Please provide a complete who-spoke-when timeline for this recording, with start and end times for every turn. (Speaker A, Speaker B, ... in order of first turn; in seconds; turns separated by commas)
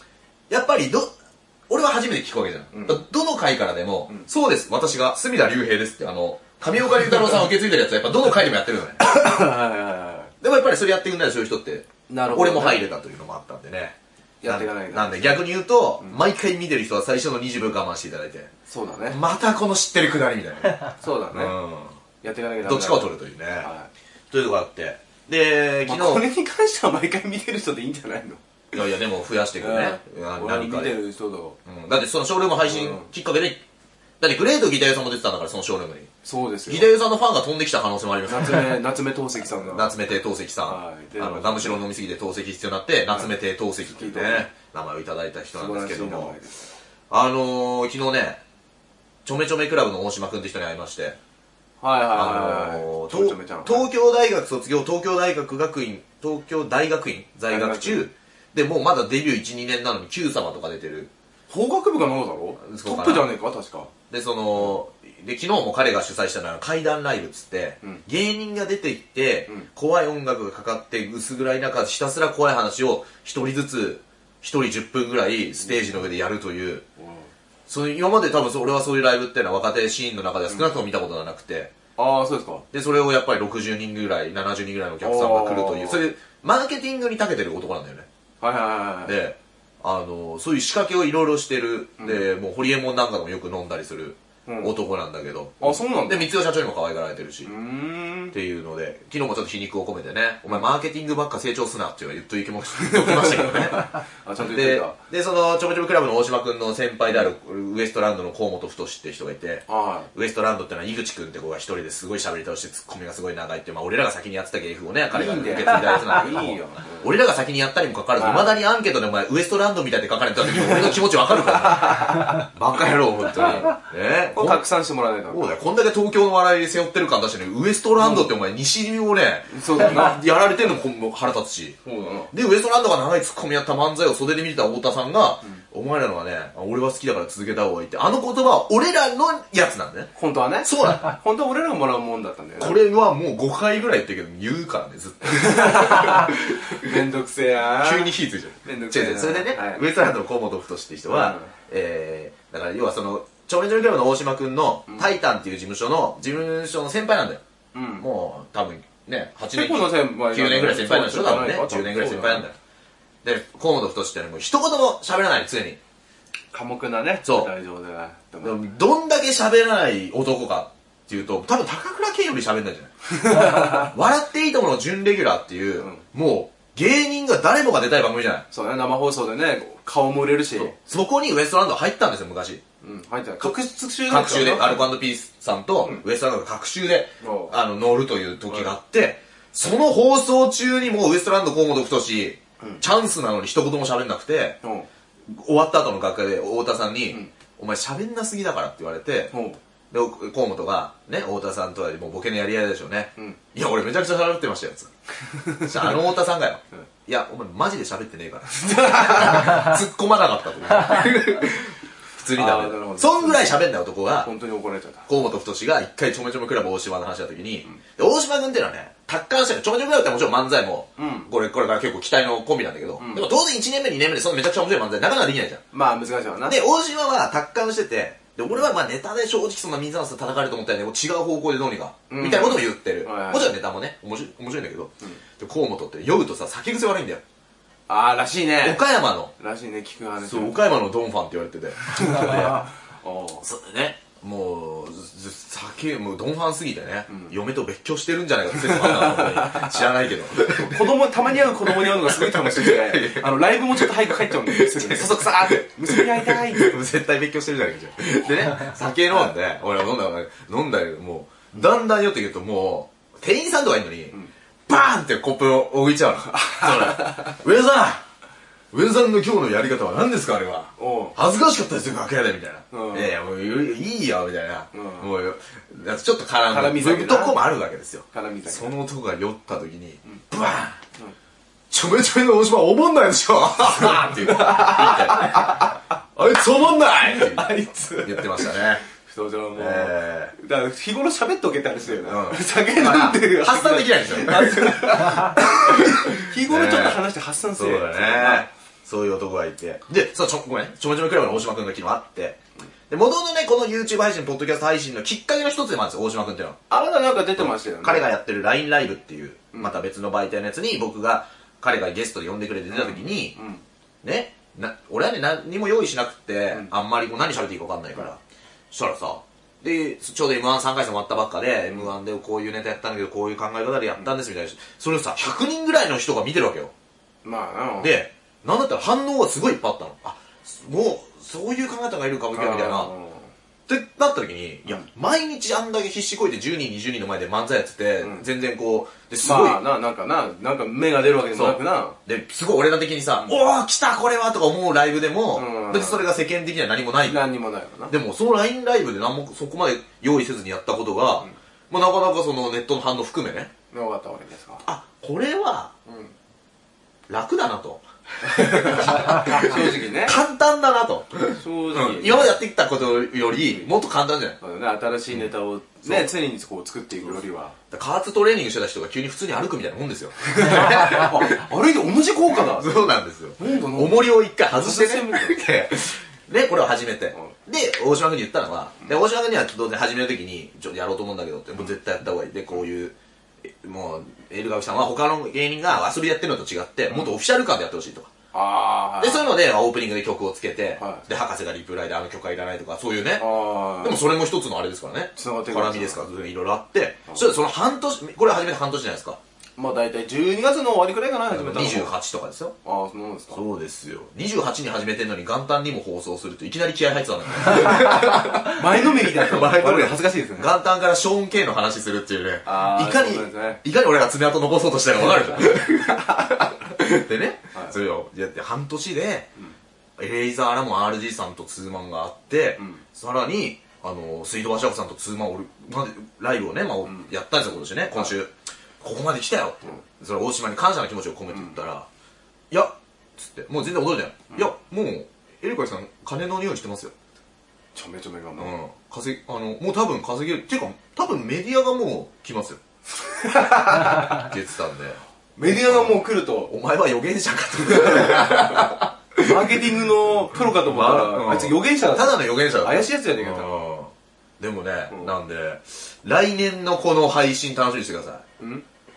Speaker A: 0.5-1.1, Speaker A: 1.7-9.0, Speaker B: 2.7-3.0, Speaker B: 9.0-10.3, Speaker A: 10.4-18.5, Speaker B: 12.1-12.9, Speaker B: 14.4-15.5, Speaker B: 18.7-19.2, Speaker A: 19.1-21.9, Speaker B: 21.0-21.6, Speaker B: 22.2-23.9, Speaker A: 22.6-23.7, Speaker A: 24.3-26.2, Speaker B: 25.9-28.4, Speaker A: 28.7-31.0, Speaker B: 29.6-31.6, Speaker A: 31.7-33.6, Speaker B: 32.7-33.1, Speaker A: 34.2-36.1, Speaker B: 36.2-36.9, Speaker A: 36.7-38.8, Speaker B: 38.3-40.0, Speaker A: 39.7-46.4, Speaker B: 40.7-41.8, Speaker B: 43.9-44.5, Speaker B: 45.5-46.7, Speaker A: 47.1-48.4, Speaker A: 49.2-51.2, Speaker B: 51.8-53.9, Speaker A: 52.1-61.1, Speaker B: 57.5-58.1, Speaker B: 61.5-63.9, Speaker A: 62.6-63.3, Speaker A: 64.1-76.8, Speaker B: 77.0-77.3, Speaker A: 77.7-81.8, Speaker B: 82.0-82.7, Speaker A: 82.7-88.1, Speaker B: 85.0-86.1, Speaker B: 88.4-89.2, Speaker A: 89.0-97.5, Speaker B: 92.0-92.3, Speaker B: 94.5-94.8, Speaker B: 95.6-96.3, Speaker B: 97.4-98.3, Speaker A: 98.3-124.6, Speaker B: 102.8-105.0, Speaker B: 109.7-110.1, Speaker B: 115.1-117.1, Speaker B: 118.2-118.6, Speaker B: 120.5-121.0, Speaker B: 121.5-122.4, Speaker B: 123.4-123.7, Speaker B: 124.3-125.6, Speaker A: 125.3-131.8, Speaker B: 128.0-128.3, Speaker B: 129.5-130.2, Speaker B: 131.8-132.3, Speaker A: 132.3-140.1, Speaker B: 140.2-142.8, Speaker A: 140.6-141.1, Speaker A: 142.6-146.9, Speaker B: 145.2-148.1, Speaker A: 147.8-157.4, Speaker B: 148.6-149.8, Speaker B: 151.1-151.5, Speaker B: 157.7-158.1, Speaker A: 158.0-162.6, Speaker B: 159.5-162.5, Speaker A: 163.2-165.8, Speaker B: 166.5-168.6, Speaker A: 167.2-167.5, Speaker A: 168.4-178.4, Speaker B: 173.2-173.9, Speaker B: 178.5-180.8, Speaker A: 180.5-182.6, Speaker B: 182.8-184.8, Speaker A: 183.4-194.6, Speaker B: 185.8-186.1, Speaker B: 187.2-187.6, Speaker B: 188.5-188.7, Speaker A: 195.3-199.3, Speaker B: 199.3-199.6, Speaker A: 199.9-204.9, Speaker B: 205.4-205.9, Speaker A: 205.6-214.3, Speaker B: 208.6-209.7, Speaker B: 212.3-213.6, Speaker B: 214.2-215.1, Speaker A: 215.1-225.6, Speaker B: 221.0-221.3, Speaker B: 223.0-223.3, Speaker B: 225.7-226.6, Speaker A: 226.4-237.2, Speaker B: 232.1-233.6, Speaker B: 237.9-238.8, Speaker A: 238.6-239.3, Speaker B: 239.4-240.6, Speaker A: 240.2-242.6, Speaker B: 241.9-243.4, Speaker A: 243.4-251.0, Speaker B: 247.1-247.3, Speaker B: 248.6-249.8, Speaker B: 250.6-256.8, Speaker A: 251.6-268.0, Speaker B: 266.3-267.4, Speaker A: 268.7-280.8, Speaker B: 270.8-271.2, Speaker B: 272.7-273.1, Speaker B: 274.7-275.1, Speaker B: 276.5-277.4, Speaker B: 278.1-278.7, Speaker A: 281.7-287.5, Speaker B: 283.8-285.8, Speaker B: 286.9-298.5, Speaker A: 288.0-288.8, Speaker A: 289.6-290.3, Speaker A: 292.0-306.6, Speaker B: 306.7-308.1, Speaker A: 307.4-313.4, Speaker B: 309.5-309.8, Speaker B: 312.7-313.6, Speaker A: 314.0-318.2, Speaker A: 318.7-326.7, Speaker B: 327.2-328.0, Speaker A: 327.8-332.9, Speaker B: 332.3-333.3, Speaker A: 333.7-339.6, Speaker B: 339.2-342.0, Speaker A: 341.3-347.2, Speaker B: 345.3-346.1, Speaker B: 347.1-347.9, Speaker A: 347.9-353.5, Speaker B: 353.7-354.6, Speaker A: 354.6-355.7, Speaker B: 355.9-356.1, Speaker A: 357.1-364.4, Speaker B: 358.2-360.2, Speaker B: 361.4-362.4, Speaker B: 364.4-367.6, Speaker A: 365.8-366.1, Speaker A: 367.7-371.4, Speaker B: 370.3-375.5, Speaker A: 372.4-388.1, Speaker B: 388.3-389.3, Speaker A: 389.0-399.2, Speaker B: 390.8-391.1, Speaker B: 393.2-394.1, Speaker B: 395.1-396.0, Speaker B: 397.1-397.3, Speaker B: 399.6-401.9, Speaker A: 401.3-402.6, Speaker B: 402.6-403.4, Speaker A: 403.3-419.3, Speaker B: 408.4-410.5, Speaker B: 412.5-413.6, Speaker A: 420.0-431.9, Speaker B: 426.9-427.1, Speaker B: 431.3-431.6, Speaker A: 432.5-436.9, Speaker B: 437.8-438.5, Speaker A: 438.4-442.6, Speaker B: 443.0-444.2, Speaker A: 443.8-449.7, Speaker B: 445.4-446.5, Speaker B: 448.0-448.4, Speaker B: 449.2-453.7, Speaker A: 450.4-458.2, Speaker B: 458.4-458.6